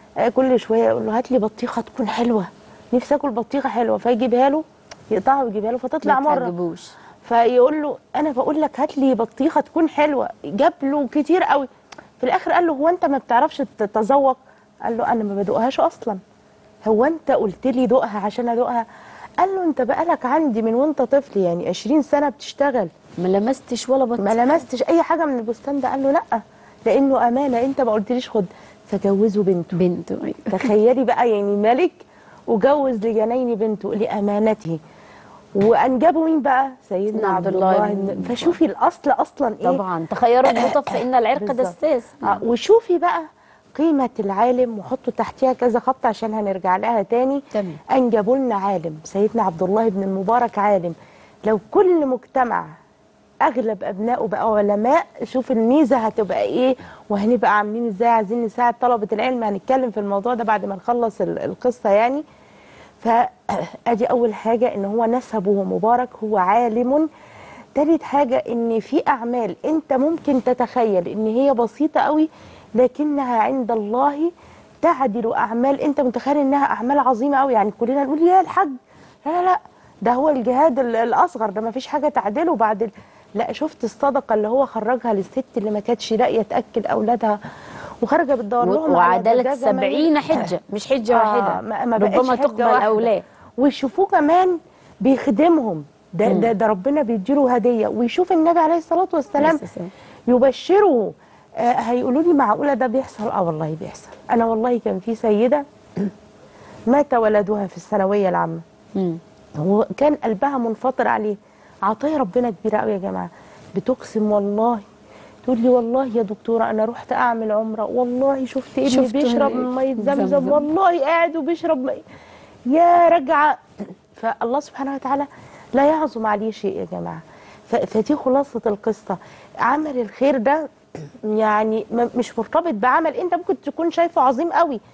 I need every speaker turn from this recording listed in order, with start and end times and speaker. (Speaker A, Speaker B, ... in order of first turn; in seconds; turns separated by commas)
Speaker A: 0.2-6.5, Speaker B: 6.0-7.0, Speaker A: 7.2-11.7, Speaker A: 12.2-16.2, Speaker A: 16.9-18.9, Speaker A: 19.4-22.9, Speaker B: 23.2-24.6, Speaker A: 24.2-29.8, Speaker B: 29.7-30.7, Speaker A: 30.5-34.8, Speaker A: 35.6-39.8, Speaker B: 37.1-38.5, Speaker B: 39.6-42.4, Speaker A: 40.4-51.0, Speaker B: 47.5-47.8, Speaker A: 51.5-52.7, Speaker A: 53.4-62.2, Speaker A: 63.0-67.1, Speaker A: 67.8-78.7, Speaker A: 79.2-87.4, Speaker A: 88.0-90.5, Speaker B: 88.6-93.2, Speaker A: 91.1-99.6, Speaker B: 96.3-96.5, Speaker B: 99.4-99.9, Speaker A: 100.3-106.1, Speaker A: 106.9-108.6, Speaker A: 109.6-114.8, Speaker A: 115.5-122.0, Speaker B: 118.9-120.6, Speaker A: 122.7-123.6, Speaker A: 124.1-134.8